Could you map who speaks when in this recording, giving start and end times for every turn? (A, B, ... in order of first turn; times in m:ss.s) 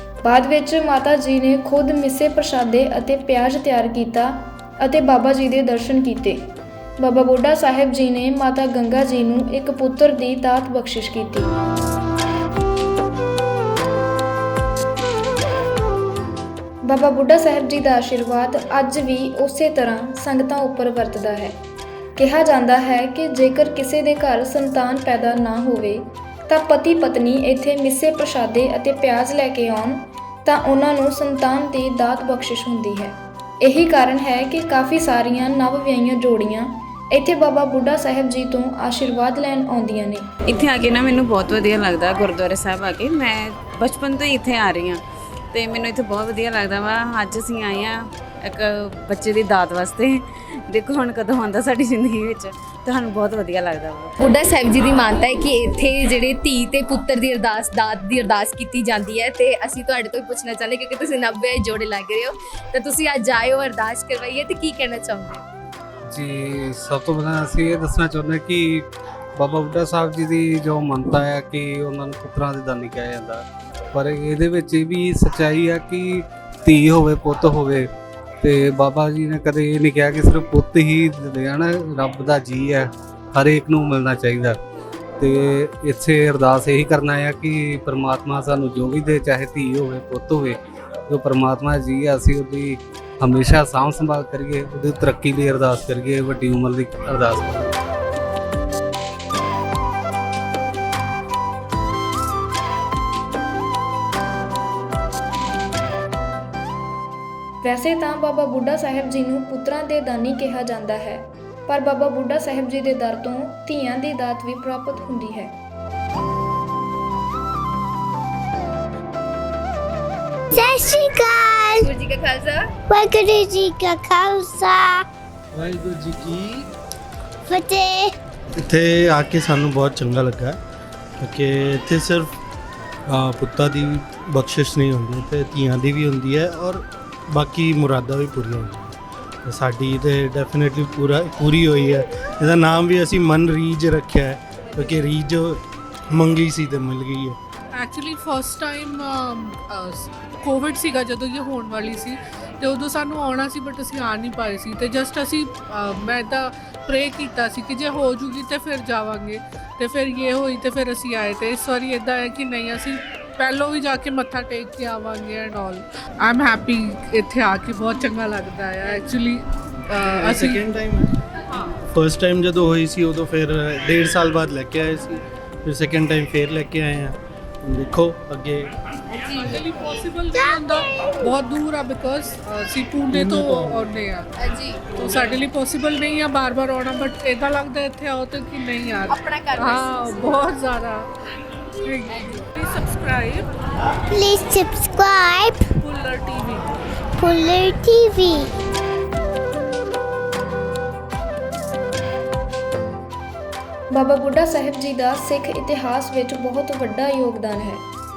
0:00.2-0:06.4 A
0:07.0-0:11.5 A
0:16.8-0:21.5 A
0:22.2-0:40.3 A
0:40.5-0:54.2 B
0:54.2-1:05.4 C
1:06.1-1:08.8 D
1:09.4-1:13.4 D
1:13.9-1:17.9 D
1:18.4-1:24.6 D
1:25.2-1:30.6 D
1:31.1-1:37.7 D
1:47.6-1:55.5 A
2:00.6-2:01.7 E
2:01.8-2:02.7 C
2:02.9-2:04.9 E
2:05.5-2:06.6 F
2:07.5-2:08.1 E
2:08.6-2:10.6 F
2:11.2-2:12.3 F
2:13.1-2:18.9 F
2:19.4-2:27.4 F
2:27.7-2:50.6 G
2:50.1-2:51.1 F
2:51.9-2:58.7 F
2:59.2-3:04.3 G
3:03.2-3:03.5 F
3:04.9-3:11.0 G
3:09.1-3:10.2 C
3:11.8-3:13.5 G
3:14.1-3:15.6 E
3:15.8-3:16.7 G
3:17.2-3:18.4 E
3:23.9-3:27.8 A